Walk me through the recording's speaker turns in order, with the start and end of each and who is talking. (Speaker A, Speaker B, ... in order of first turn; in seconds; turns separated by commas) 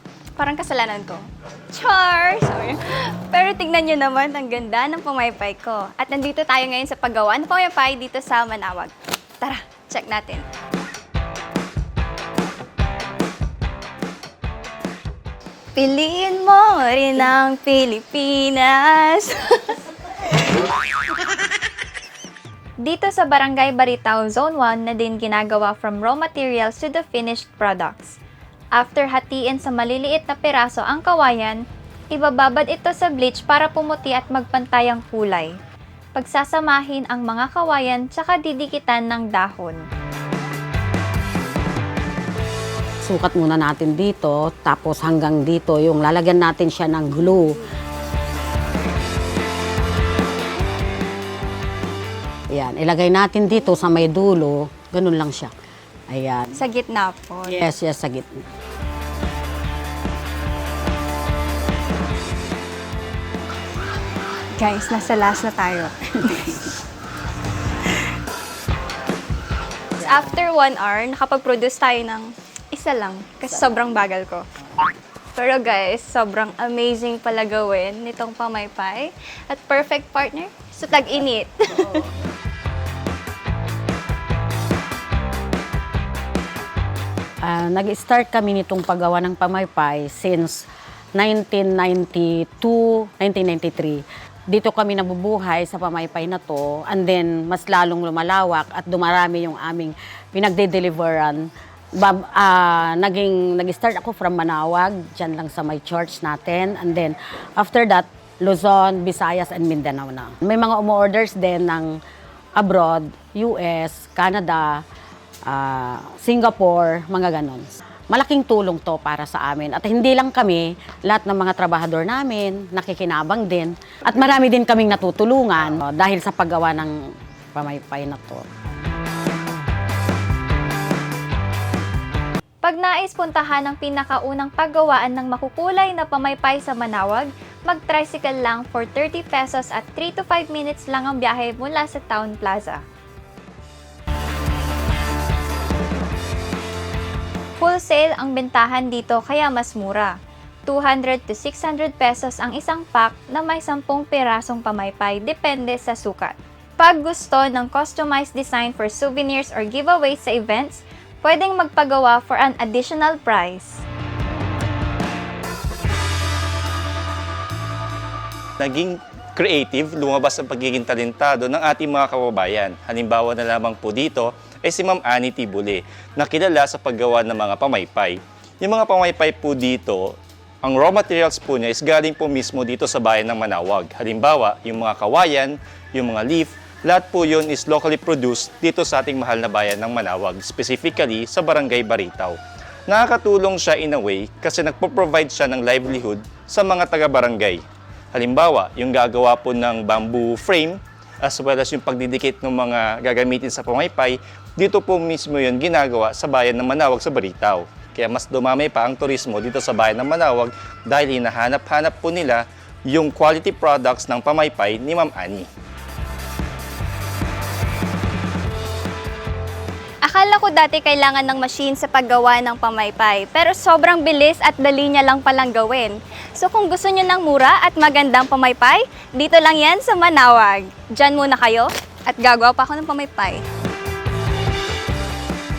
Speaker A: 0.4-1.2, Speaker A: 1.7-2.8, Speaker A: 3.3-10.4, Speaker A: 15.8-19.5, Speaker A: 22.8-28.2, Speaker A: 28.7-31.6, Speaker A: 32.1-35.5, Speaker A: 36.1-39.8, Speaker B: 43.0-47.6, Speaker B: 52.5-55.5, Speaker B: 56.1-56.6, Speaker A: 56.5-57.6, Speaker B: 57.4-58.3, Speaker A: 64.6-66.7, Speaker A: 70.0-74.4, Speaker A: 75.3-82.0, Speaker B: 87.4-101.4, Speaker B: 102.0-112.0, Speaker B: 112.5-114.8, Speaker B: 115.5-126.9, Speaker B: 127.5-128.4, Speaker A: 132.6-142.8, Speaker A: 147.6-150.1, Speaker A: 150.7-163.8, Speaker C: 168.6-197.6, Speaker C: 198.1-215.5, Speaker A: 220.0-233.4